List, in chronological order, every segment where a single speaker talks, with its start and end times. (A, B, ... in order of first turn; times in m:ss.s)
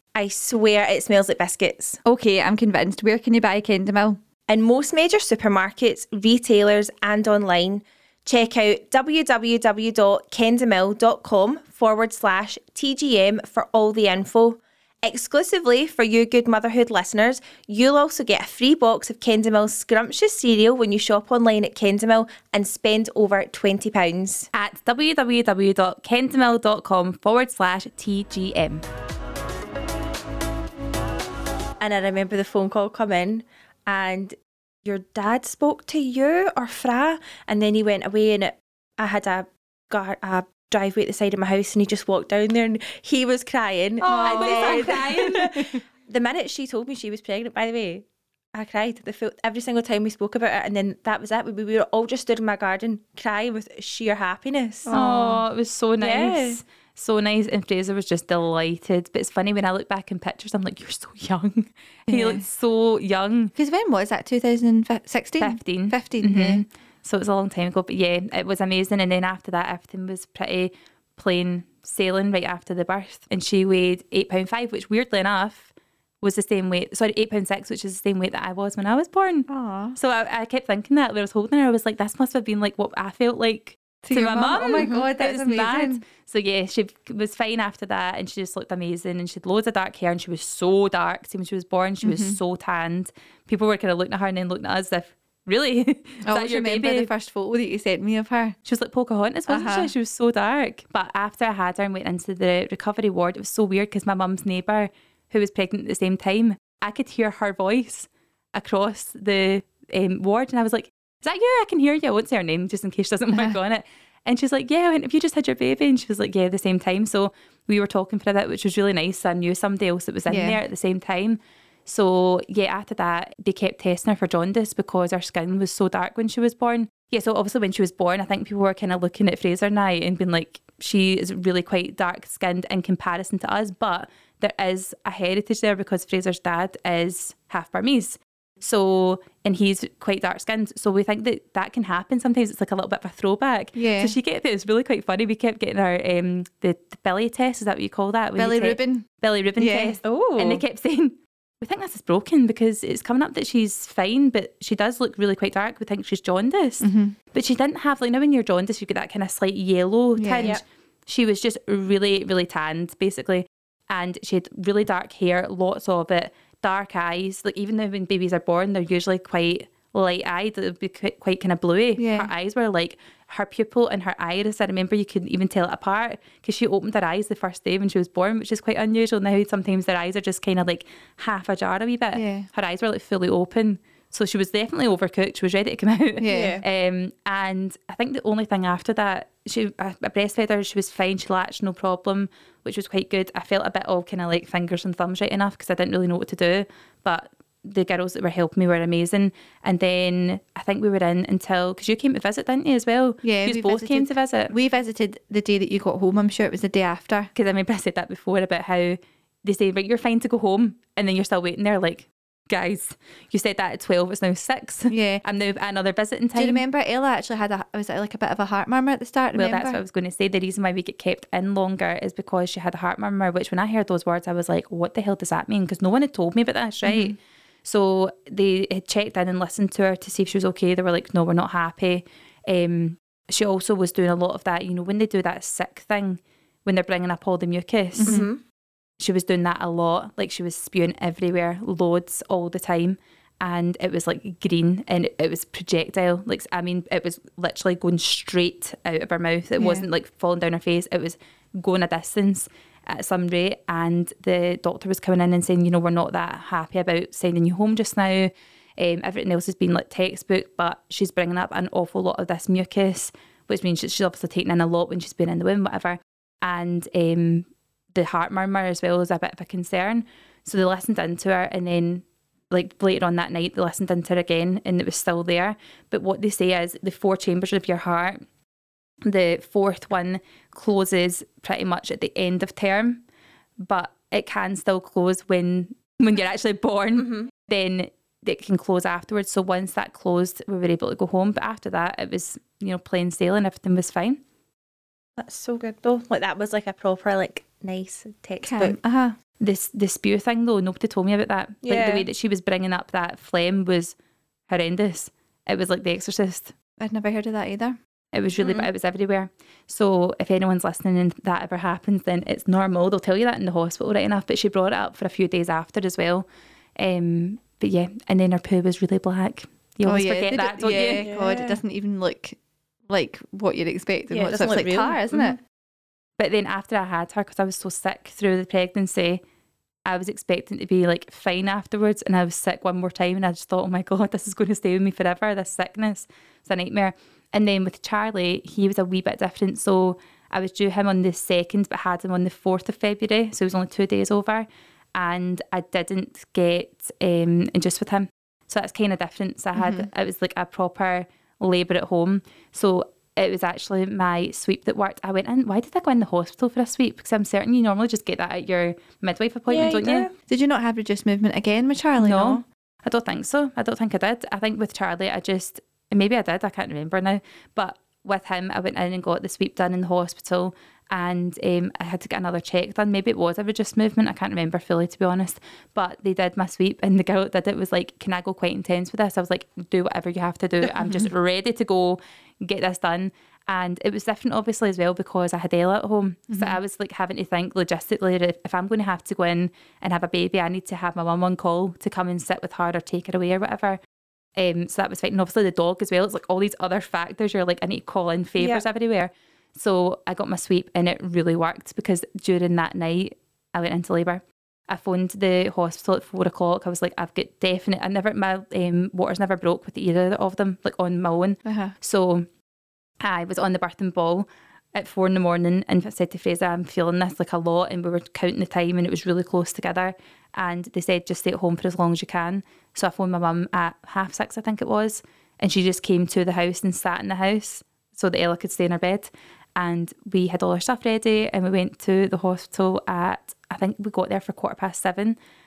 0:00.1-0:02.0 A
0:02.0-0:04.2 B
0:04.5-0:24.5 A
0:24.5-0:28.8 C
0:31.8-0:54.9 A
0:44.0-0:45.7 B
0:44.1-0:45.5 C
0:54.8-0:55.4 B
0:54.9-1:03.5 C
0:56.0-0:56.6 A
1:02.1-1:02.4 B
1:03.6-1:06.6 B
1:05.4-1:15.7 C
1:16.2-1:37.1 C
1:19.5-1:20.0 B
1:24.0-1:26.0 B
1:24.8-1:25.1 A
1:32.0-1:32.4 B
1:36.2-1:38.6 B
1:38.6-3:24.5 C
1:39.5-1:39.9 B
2:00.3-2:00.6 B
2:23.7-2:24.2 B
2:28.4-2:30.0 B
2:30.0-2:30.6 A
2:36.8-2:37.2 B
2:40.2-2:40.5 B
2:52.0-2:52.3 B
3:02.1-3:02.5 B
3:06.2-3:06.6 B
3:06.3-3:06.6 A
3:23.2-3:27.3 B
3:27.3-3:36.6 C
3:34.9-3:35.2 B
3:36.4-3:39.8 B
3:39.3-3:58.2 C
3:46.8-3:47.1 B
3:58.0-3:58.2 B
3:58.0-3:58.4 A
3:59.0-4:38.2 C
4:09.6-4:09.8 B
4:39.0-4:43.0 C
4:43.6-4:54.2 C
4:47.0-4:47.3 A
4:55.2-4:58.8 A
4:58.4-4:59.2 B
4:59.4-5:04.0 C
5:01.6-5:02.1 A
5:04.5-5:06.5 C
5:06.8-5:07.8 B
5:08.1-5:21.1 C
5:08.4-5:08.7 A
5:19.8-5:25.4 B
5:21.0-5:21.6 A
5:24.1-5:25.4 A
5:26.2-5:29.2 C
5:29.8-6:00.1 C
5:49.6-5:49.9 B
5:59.5-6:00.1 A
6:00.3-6:02.4 B
6:02.0-6:33.8 C
6:20.6-6:21.1 B
6:26.3-6:26.6 B
6:34.4-6:52.3 C
6:38.4-6:38.6 A
6:51.4-6:51.7 B
6:53.0-7:15.2 C